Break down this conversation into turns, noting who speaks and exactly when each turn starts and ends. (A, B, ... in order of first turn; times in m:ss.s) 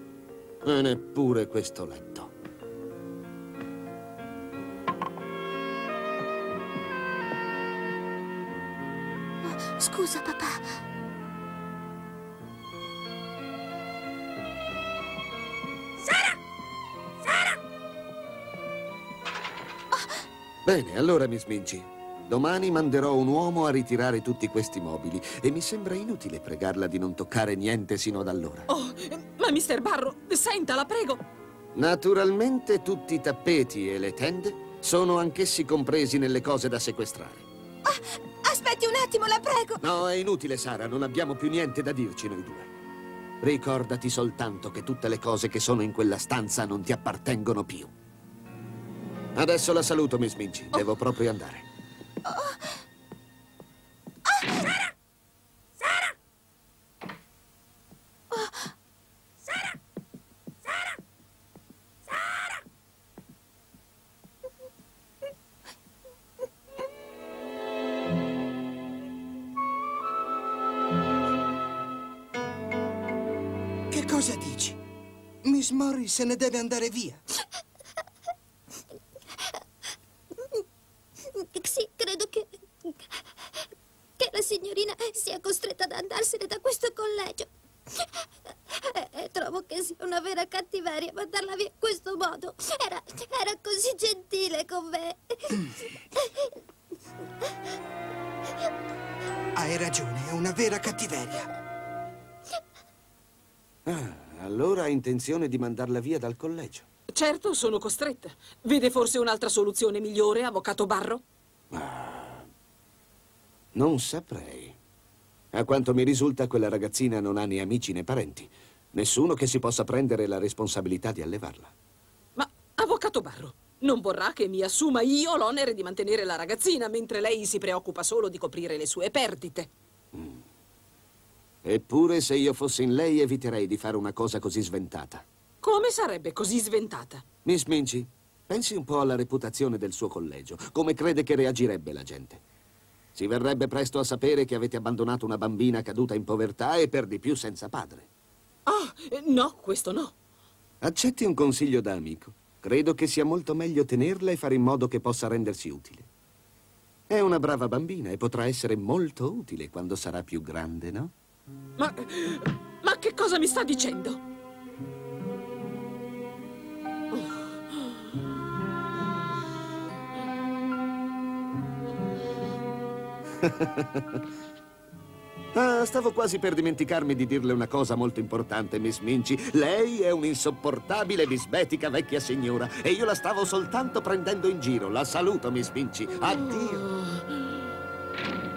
0:00.6-0:02.3 A
0:09.4-0:10.7 B
0:20.7-0:28.7 A
0:28.7-0:31.2 C
0:31.8-0:37.5 A
0:37.9-0:39.8 B
0:39.8-0:42.7 A
0:43.4-0:47.9 A
0:49.4-0:51.6 A
0:52.3-0:52.6 B
0:54.4-0:54.8 B
0:58.3-0:58.6 B
1:13.9-1:14.8 D
1:15.4-1:17.2 D
1:21.6-1:22.4 E
1:24.4-1:27.2 E
1:26.8-1:27.2 B
1:29.2-1:32.7 E
1:33.5-1:34.5 E
1:33.8-1:34.7 B
1:39.6-1:41.5 D
1:43.9-1:46.9 A
1:47.1-1:51.2 C
1:51.7-1:52.4 A
1:53.8-1:54.8 A
1:55.5-2:01.7 A
2:02.4-2:09.7 C
2:10.2-2:10.4 A
2:11.6-2:15.2 A
2:15.6-2:17.2 C
2:17.4-2:22.4 A
2:23.2-2:28.1 A
2:28.7-2:30.1 C
2:30.8-2:36.1 A
2:37.1-2:41.1 A
2:41.8-2:44.2 C
2:47.1-2:48.0 C
2:53.4-2:54.2 A
2:55.5-3:06.6 A
3:06.4-3:06.9 D
3:07.0-3:07.2 C